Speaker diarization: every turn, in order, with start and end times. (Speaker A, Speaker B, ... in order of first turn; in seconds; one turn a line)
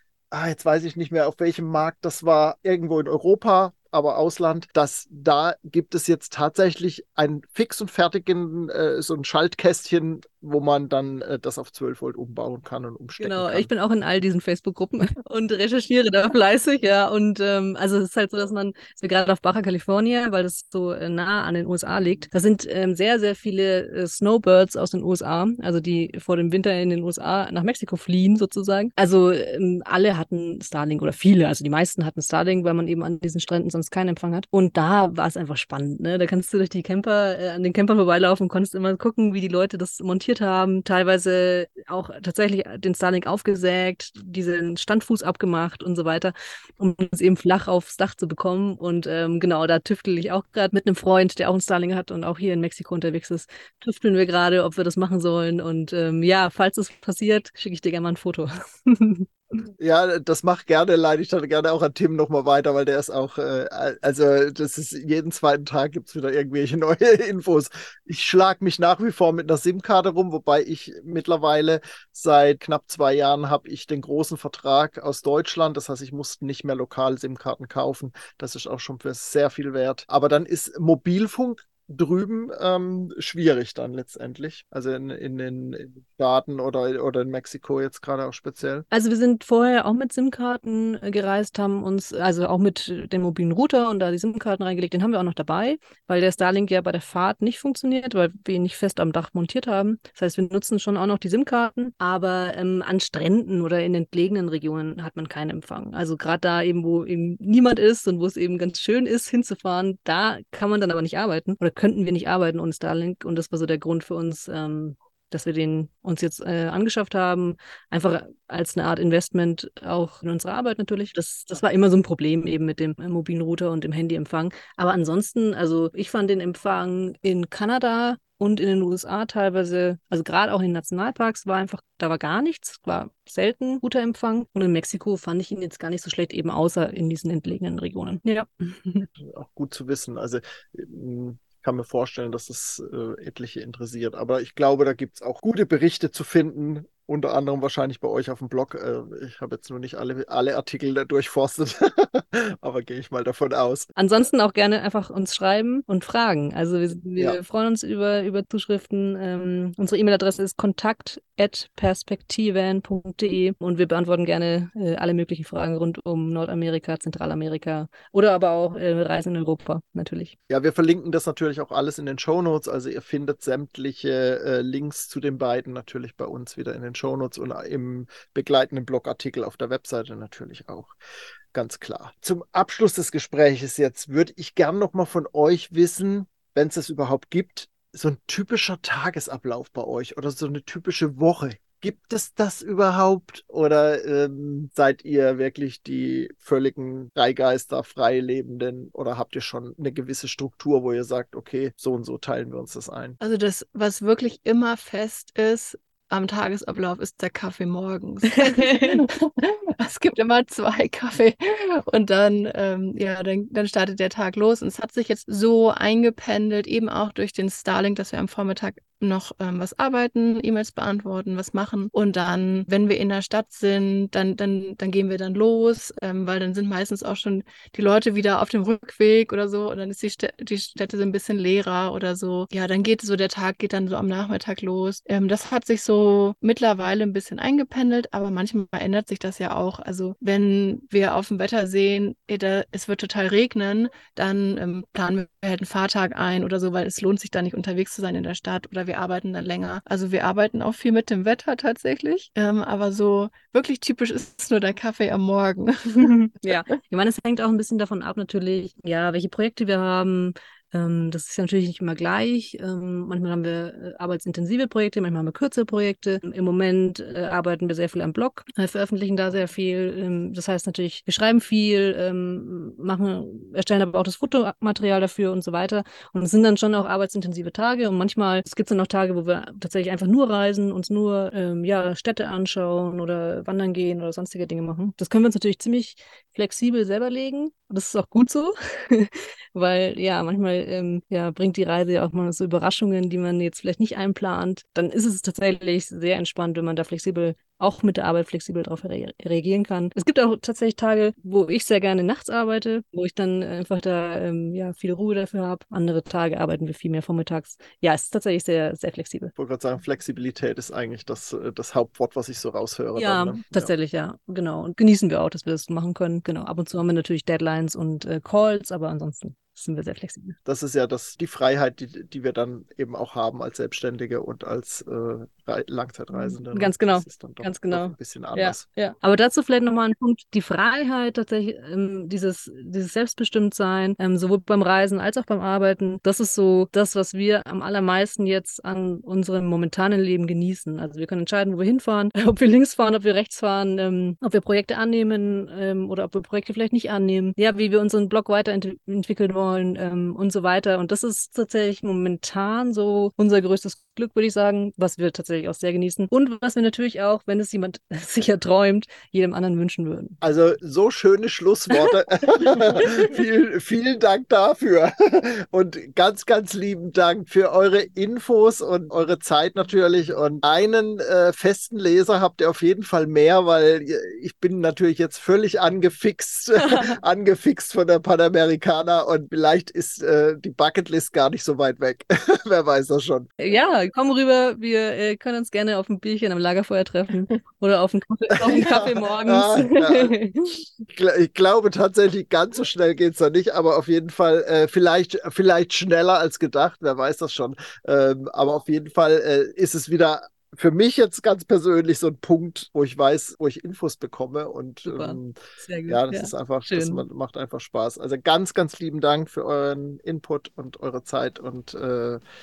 Speaker A: 0.3-13.7
Speaker B: 13.2-59.3
Speaker A: 59.8-88.8
Speaker B: 88.9-139.1
Speaker A: 139.2-153.9
Speaker B: 153.9-170.3
Speaker A: 170.5-180.9
Speaker A: 181.5-203.2
Speaker C: 203.2-256.4
Speaker B: 208.3-209.0
Speaker B: 256.4-309.3
Speaker A: 309.4-313.7
Speaker B: 312.9-320.4
Speaker A: 320.4-328.6
Speaker B: 326.1-360.2
Speaker A: 360.2-383.3
Speaker B: 376.7-376.9
Speaker B: 383.4-390.6
Speaker A: 388.3-390.1
Speaker A: 390.9-405.4
Speaker B: 404.8-407.0
Speaker A: 405.9-412.2